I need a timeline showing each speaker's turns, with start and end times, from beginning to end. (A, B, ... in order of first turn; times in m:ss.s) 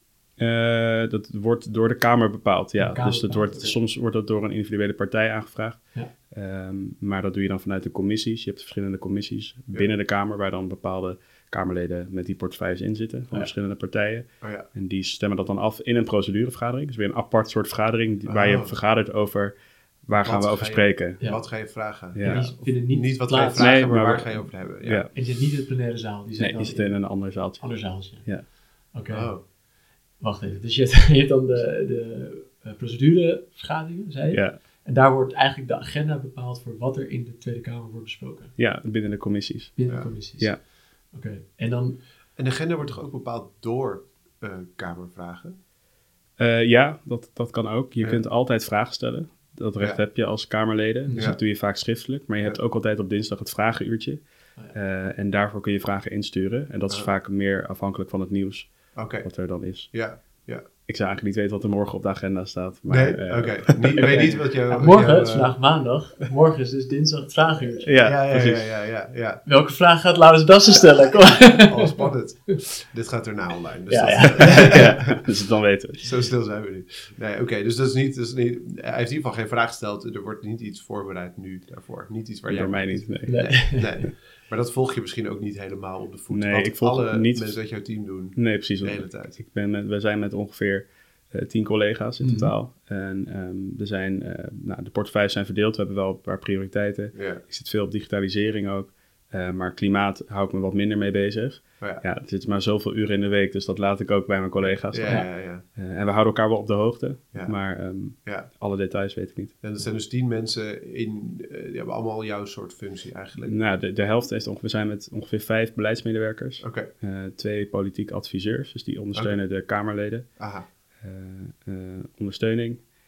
0:00.4-0:19.5 A
0:02.8-0:03.8 B
0:14.4-0:14.7 C
0:18.3-0:18.7 C
0:20.1-0:21.2 A
0:20.2-0:25.1 C
0:21.2-0:21.5 B
0:22.2-0:22.5 A
0:22.2-0:23.7 B
0:23.6-0:25.1 A
0:25.1-0:29.3 B
0:26.4-0:28.5 A
0:29.1-0:29.4 C
0:30.2-0:38.6 B
0:34.3-0:34.6 A
0:38.6-0:39.8 A
0:39.8-0:42.0 B
0:42.4-0:45.6 C
0:46.4-0:54.2 A
0:51.1-0:51.4 B
0:54.7-0:58.7 A
0:59.0-0:59.3 C
0:59.2-0:59.9 A
0:59.9-1:00.6 C
1:00.9-1:04.3 A
1:02.9-1:05.6 C
1:04.0-1:07.9 B
1:07.8-1:08.7 A
1:08.0-1:09.4 C
1:09.5-1:12.1 B
1:11.4-1:15.3 C
1:13.9-1:15.0 B
1:14.5-1:16.1 A
1:16.0-1:29.4 C
1:22.5-1:23.4 A
1:23.3-1:24.1 B
1:26.3-1:27.6 A
1:28.4-1:49.6 A
1:32.2-1:32.5 B
1:37.2-1:37.4 C
1:44.6-1:45.6 C
1:49.6-1:53.6 C
1:53.5-2:00.3 A
1:56.6-1:56.9 C
2:00.4-2:00.7 C
2:01.0-2:02.8 A